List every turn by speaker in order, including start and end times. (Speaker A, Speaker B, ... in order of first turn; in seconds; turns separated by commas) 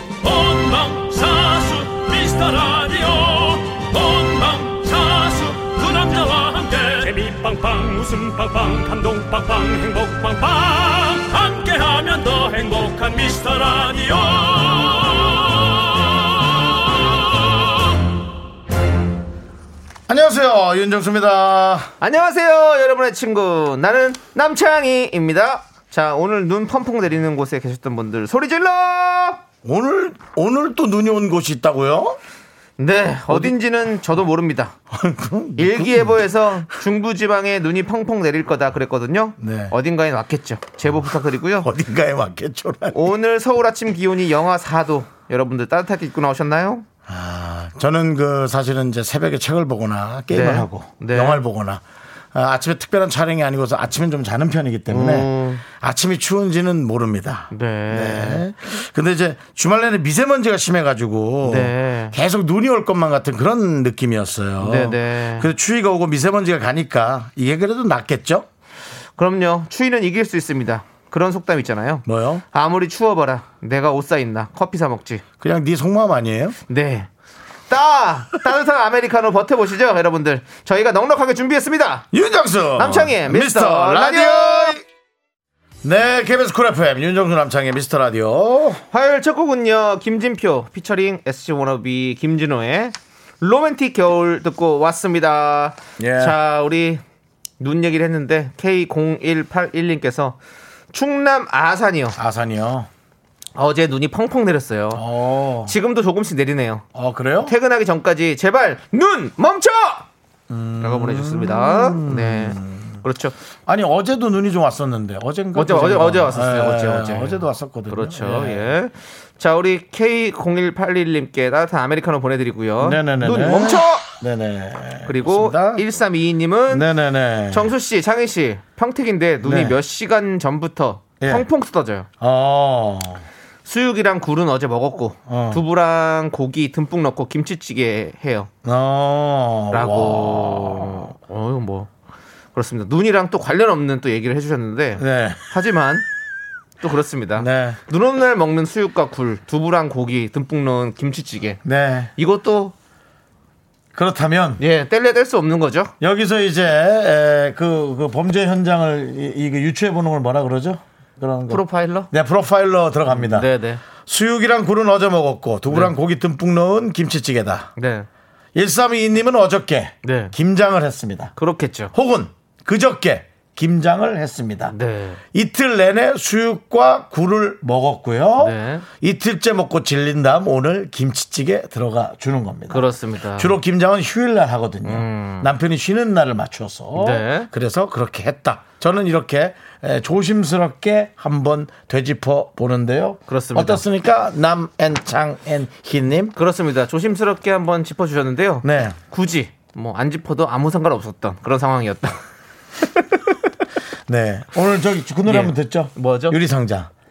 Speaker A: 0.2-17.7, Speaker B: 20.1-21.9, Speaker C: 22.0-29.4, Speaker B: 29.6-32.2, Speaker C: 32.8-34.7, Speaker B: 33.3-33.5, Speaker B: 34.9-36.2, Speaker C: 35.6-41.7, Speaker B: 39.4-39.7, Speaker B: 41.6-43.1, Speaker C: 42.9-46.8, Speaker B: 47.1-51.8, Speaker C: 50.3-51.4, Speaker B: 52.3-68.5, Speaker C: 54.9-55.6, Speaker C: 57.5-58.4, Speaker C: 61.4-62.1, Speaker C: 64.6-65.5, Speaker C: 69.2-75.2, Speaker B: 72.0-72.4, Speaker B: 75.4-76.6, Speaker C: 76.7-77.1, Speaker C: 77.7-82.1, Speaker B: 82.1-84.8, Speaker C: 82.8-84.8, Speaker B: 85.8-88.8, Speaker C: 88.9-97.0, Speaker B: 96.0-96.4, Speaker C: 97.6-100.4, Speaker C: 100.9-102.2, Speaker B: 102.2-102.9, Speaker C: 103.5-105.0, Speaker B: 104.9-105.8, Speaker C: 105.7-106.8, Speaker B: 106.9-107.5, Speaker C: 107.5-110.1, Speaker B: 110.5-113.0, Speaker C: 110.8-113.3, Speaker B: 113.7-118.7, Speaker C: 115.5-124.0, Speaker B: 122.8-125.8, Speaker C: 125.0-126.8, Speaker B: 126.7-127.7, Speaker C: 127.5-132.1, Speaker B: 129.4-129.8, Speaker B: 131.2-131.5, Speaker B: 132.2-133.2, Speaker C: 133.6-138.5, Speaker B: 135.3-135.6, Speaker B: 138.6-141.1, Speaker C: 139.7-141.9, Speaker C: 142.5-146.0, Speaker B: 145.0-145.4, Speaker C: 146.8-151.6, Speaker B: 147.3-147.8, Speaker B: 151.6-152.1, Speaker C: 152.2-152.7, Speaker B: 153.9-154.6, Speaker C: 154.6-155.9, Speaker B: 156.0-163.5, Speaker C: 161.5-162.1, Speaker C: 163.1-163.8, Speaker B: 164.0-167.7, Speaker C: 165.7-165.9, Speaker C: 167.8-168.1, Speaker B: 168.5-171.3, Speaker C: 170.0-170.3, Speaker C: 171.4-171.9, Speaker B: 171.9-174.7, Speaker C: 174.7-175.2, Speaker B: 175.3-196.3, Speaker C: 178.4-178.8, Speaker C: 182.7-183.6, Speaker C: 184.8-185.5, Speaker C: 186.9-187.5, Speaker C: 193.3-193.8, Speaker C: 196.3-202.2, Speaker B: 198.6-198.9, Speaker B: 204.1-206.9, Speaker C: 205.2-206.4